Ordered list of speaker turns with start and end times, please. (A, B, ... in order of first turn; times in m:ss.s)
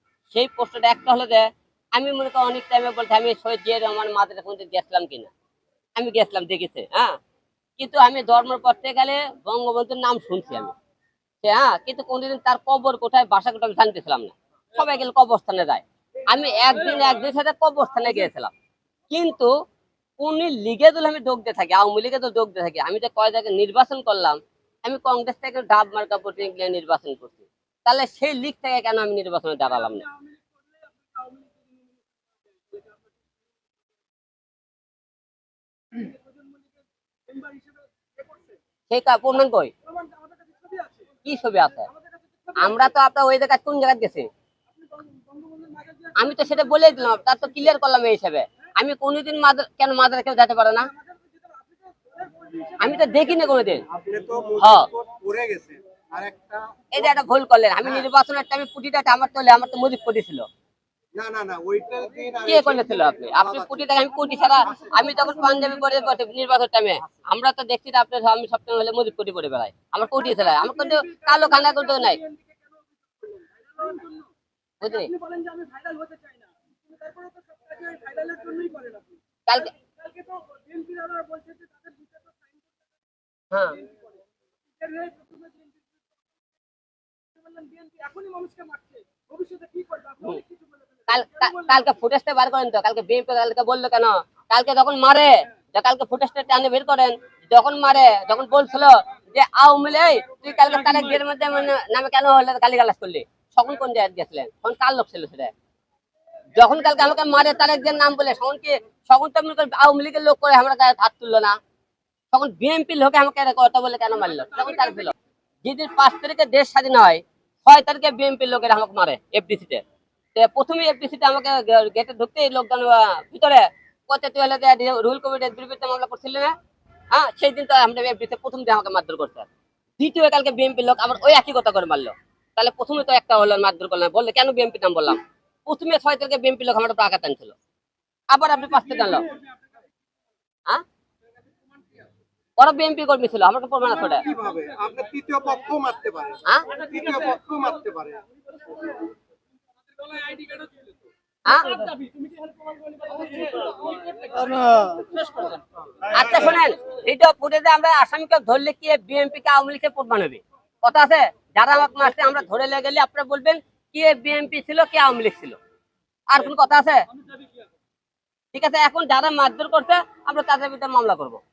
0:00.3-0:05.3 A
0:06.0-0:07.1 A
0:07.8-0:10.7 A
0:11.4-0:18.5 A
0:19.1-0:19.5 A
0:20.2-0:30.0 A
0:30.1-0:30.4 B
0:31.1-0:31.8 B
0:35.9-0:36.6 B
0:37.3-0:38.6 B
0:38.9-0:39.7 A
0:39.9-0:41.2 B
0:41.2-0:41.9 A
0:41.9-0:42.5 B
0:42.6-0:44.3 A
0:44.8-0:46.3 B
0:46.2-0:50.9 A
0:51.4-0:53.2 B
0:52.8-0:53.8 A
0:53.9-0:56.8 C
0:54.6-0:54.9 A
0:56.9-1:00.4 A
1:01.1-1:05.2 C
1:02.4-1:12.2 A
1:10.5-1:12.6 B
1:13.2-1:14.3 B
1:14.8-1:15.1 A
1:14.9-1:19.2 B
1:19.5-1:19.7 A
1:19.9-1:22.5 B
1:23.5-1:23.8 A
1:23.8-1:24.1 B
1:24.8-1:25.7 B
1:27.4-1:31.6 B
1:31.1-1:45.5 A
1:40.6-1:41.2 B
1:46.6-1:51.6 A
1:52.3-1:59.8 A
2:00.3-2:06.5 A
2:07.1-2:17.5 A
2:18.3-2:19.3 A
2:18.7-2:19.6 B
2:22.6-2:24.2 A
2:24.2-2:28.2 C
2:24.3-2:24.6 B
2:26.7-2:27.6 B
2:28.5-2:29.1 B
2:29.9-2:30.9 B
2:31.4-2:31.9 A
2:31.6-2:35.6 B
2:36.1-2:45.6 A
2:46.3-2:47.0 A
2:47.3-2:47.5 B
2:48.5-2:51.4 A